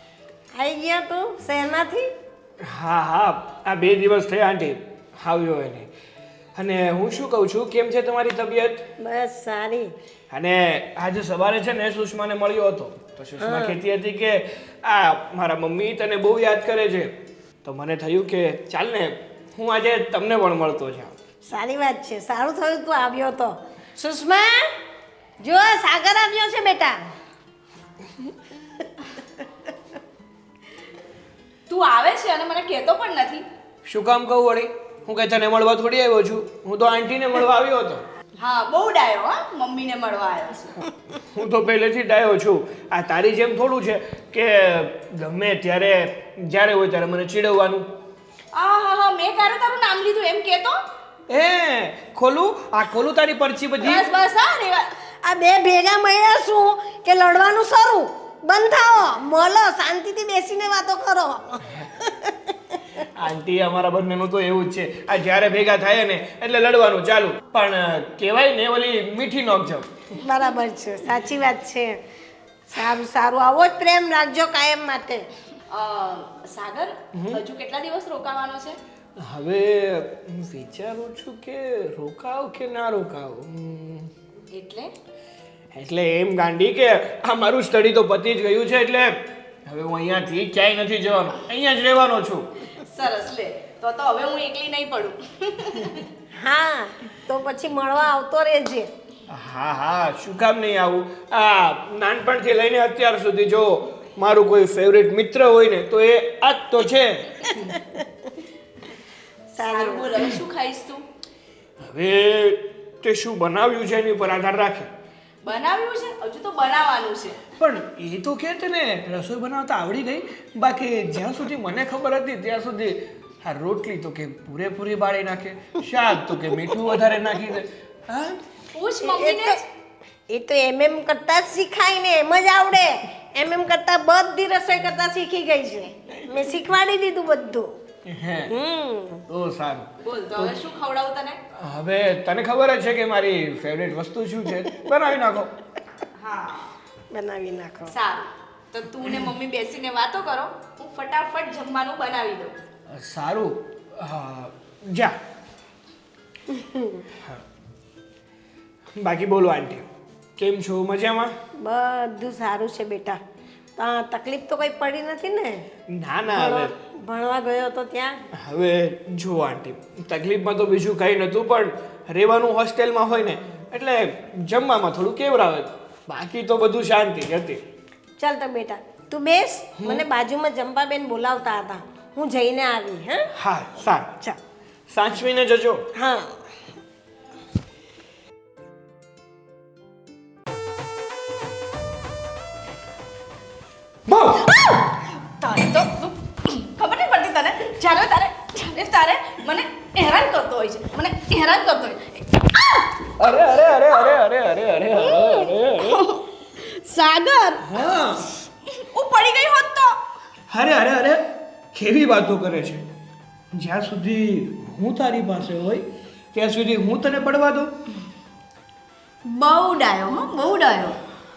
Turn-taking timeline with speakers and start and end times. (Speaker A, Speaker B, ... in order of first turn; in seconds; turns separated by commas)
Speaker A: 0.5-2.1, Speaker B: 2.6-5.9, Speaker B: 6.5-8.8, Speaker A: 9.0-9.9, Speaker B: 10.3-17.1, Speaker A: 13.4-13.8, Speaker B: 17.6-21.1, Speaker A: 21.5-24.6, Speaker A: 25.4-27.0, Speaker C: 31.7-33.5, Speaker B: 33.9-38.0, Speaker C: 38.4-40.9, Speaker B: 41.3-47.9, Speaker C: 48.5-50.8, Speaker B: 51.3-54.1, Speaker C: 53.8-54.9, Speaker A: 55.2-62.5, Speaker B: 63.1-69.9, Speaker A: 70.2-72.0, Speaker A: 72.7-75.3, Speaker C: 75.7-78.8, Speaker B: 77.2-77.4, Speaker B: 79.2-84.1, Speaker C: 84.5-84.9, Speaker B: 85.7-89.1, Speaker B: 89.7-92.5, Speaker C: 92.7-96.0, Speaker A: 96.4-98.9, Speaker B: 99.3-107.4, Speaker A: 107.5-108.0, Speaker A: 109.5-110.3, Speaker C: 109.6-111.0, Speaker B: 111.8-114.9, Speaker C: 115.4-117.4, Speaker B: 117.6-128.4, Speaker C: 128.7-129.6, Speaker A: 129.0-129.6, Speaker A: 130.3-137.7, Speaker B: 138.1-138.5, Speaker A: 138.5-139.2, Speaker B: 139.3-140.6, Speaker C: 140.0-141.4, Speaker B: 141.6-145.5, Speaker C: 146.1-146.8, Speaker A: 147.1-147.9, Speaker C: 147.9-152.6, Speaker B: 152.9-155.2, Speaker A: 156.5-157.0, Speaker B: 159.0-159.8, Speaker B: 160.4-161.3, Speaker A: 161.6-163.2, Speaker A: 163.8-165.6, Speaker B: 165.9-166.7, Speaker A: 166.3-168.1, Speaker B: 168.4-177.6, Speaker A: 178.2-183.3, Speaker B: 179.8-180.0, Speaker B: 183.4-184.3, Speaker B: 184.9-185.8, Speaker A: 186.0-186.3, Speaker B: 194.1-194.5, Speaker C: 194.4-203.1, Speaker B: 203.2-206.0, Speaker C: 204.9-207.8, Speaker B: 207.6-208.3, Speaker C: 208.7-210.0, Speaker B: 210.5-212.8, Speaker B: 213.5-217.7, Speaker C: 219.2-221.0